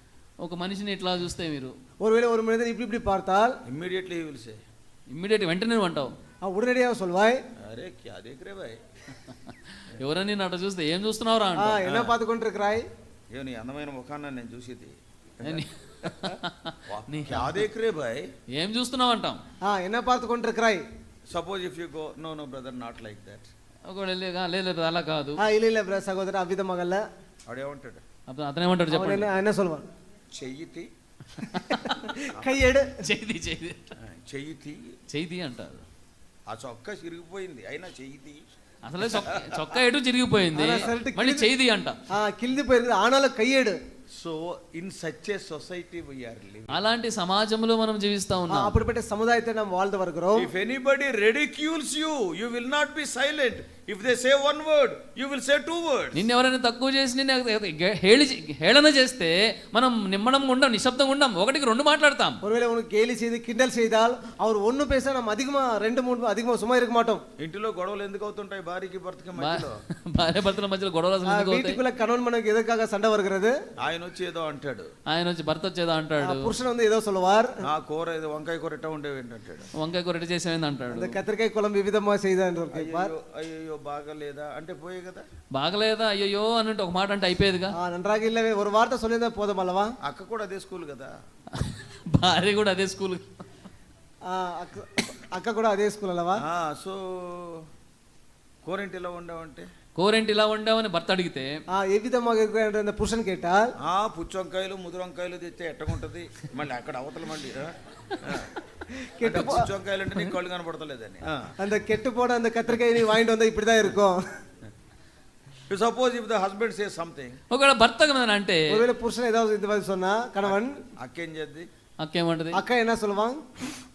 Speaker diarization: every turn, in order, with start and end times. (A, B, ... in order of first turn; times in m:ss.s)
0:00.4-0:01.7 A
0:02.0-0:03.5 B
0:03.6-0:04.6 C
0:05.1-0:06.1 A
0:06.4-0:07.4 B
0:07.6-0:08.8 C
0:09.9-0:11.8 A
0:11.6-0:12.8 B
0:11.8-0:12.1 C
0:13.3-0:18.3 C
0:15.4-0:17.6 A
0:18.6-0:19.4 A
0:19.7-0:20.8 B
0:21.3-0:23.5 C
0:23.9-0:25.4 A
0:25.4-0:27.0 B
0:27.4-0:28.0 C
0:28.3-0:29.3 A
0:28.9-0:29.9 B
0:30.3-0:30.9 C
0:31.4-0:33.0 B
0:31.5-0:32.0 A
0:33.0-0:34.0 A
0:34.0-0:35.0 C
0:35.1-0:35.8 A
0:36.5-0:38.4 C
0:38.8-0:42.0 A
0:39.0-0:39.6 C
0:40.6-0:41.5 B
0:42.1-0:43.8 B
0:44.2-0:46.8 C
0:46.7-0:48.7 A
0:48.5-0:50.5 B
0:50.4-0:56.3 C
0:56.2-1:02.4 A
1:02.4-1:07.2 B
1:07.4-1:09.8 C
1:09.4-1:11.8 A
1:11.2-1:13.5 B
1:13.8-1:14.9 C
1:15.1-1:16.5 A
1:16.2-1:17.5 B
1:17.6-1:19.7 C
1:19.8-1:21.2 A
1:20.9-1:23.1 B
1:22.7-1:25.2 C
1:25.5-1:27.8 A
1:27.8-1:29.9 B
1:30.0-1:31.2 C
1:31.5-1:33.2 A
1:34.3-1:36.4 B
1:36.4-1:37.7 C
1:38.6-1:39.7 C
1:40.0-1:41.5 A
1:41.8-1:43.7 B
1:43.8-1:48.5 C
1:49.1-1:49.7 B
1:49.2-1:51.5 C
1:51.6-1:54.2 B
1:55.7-1:57.4 C
1:57.5-1:58.8 A
1:58.7-2:00.8 B
2:00.5-2:01.7 C
2:02.0-2:02.6 A
2:02.6-2:03.4 B